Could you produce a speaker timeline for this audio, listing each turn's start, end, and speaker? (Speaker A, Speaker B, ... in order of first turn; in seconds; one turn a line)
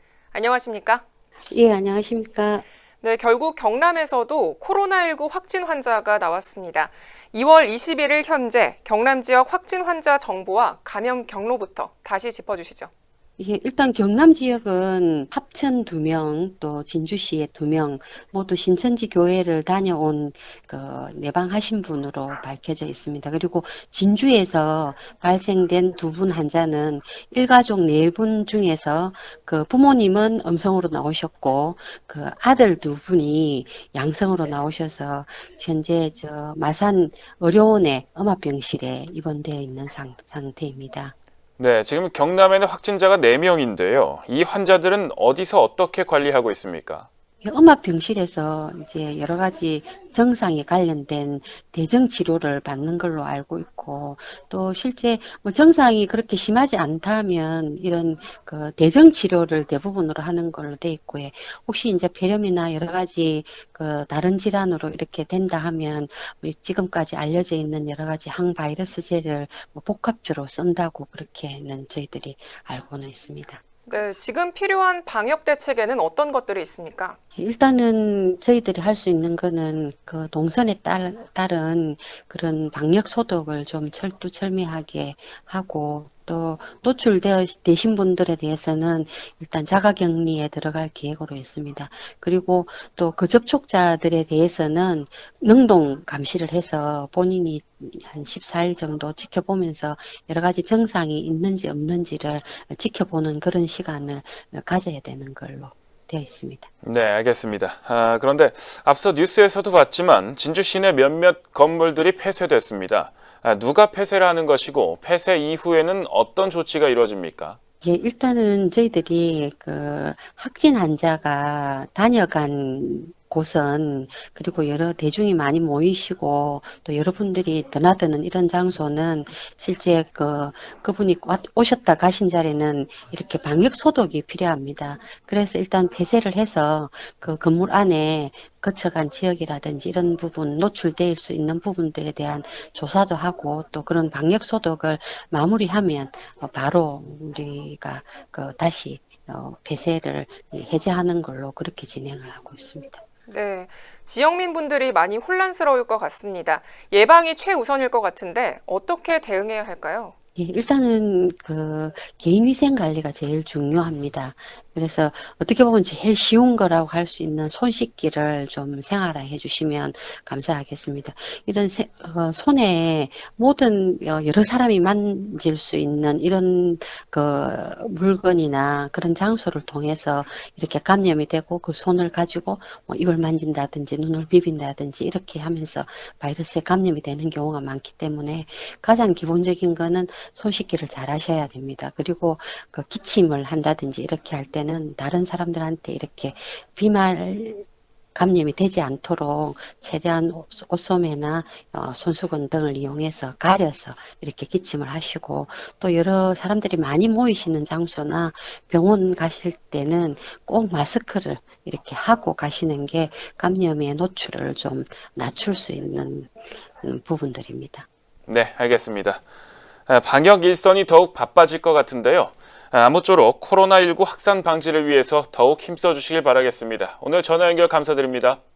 Speaker A: 0.3-1.0
Speaker B: 1.5-2.6
Speaker A: 3.0-12.9
Speaker B: 13.4-41.1
Speaker C: 41.6-47.1
Speaker B: 47.4-73.6
Speaker A: 73.9-77.2
Speaker B: 77.3-106.7
Speaker C: 106.8-117.6
Speaker B: 117.8-153.0
Speaker A: 153.3-160.1
Speaker B: 160.3-217.9
Speaker C: 218.3-219.2
Speaker C: 219.9-228.4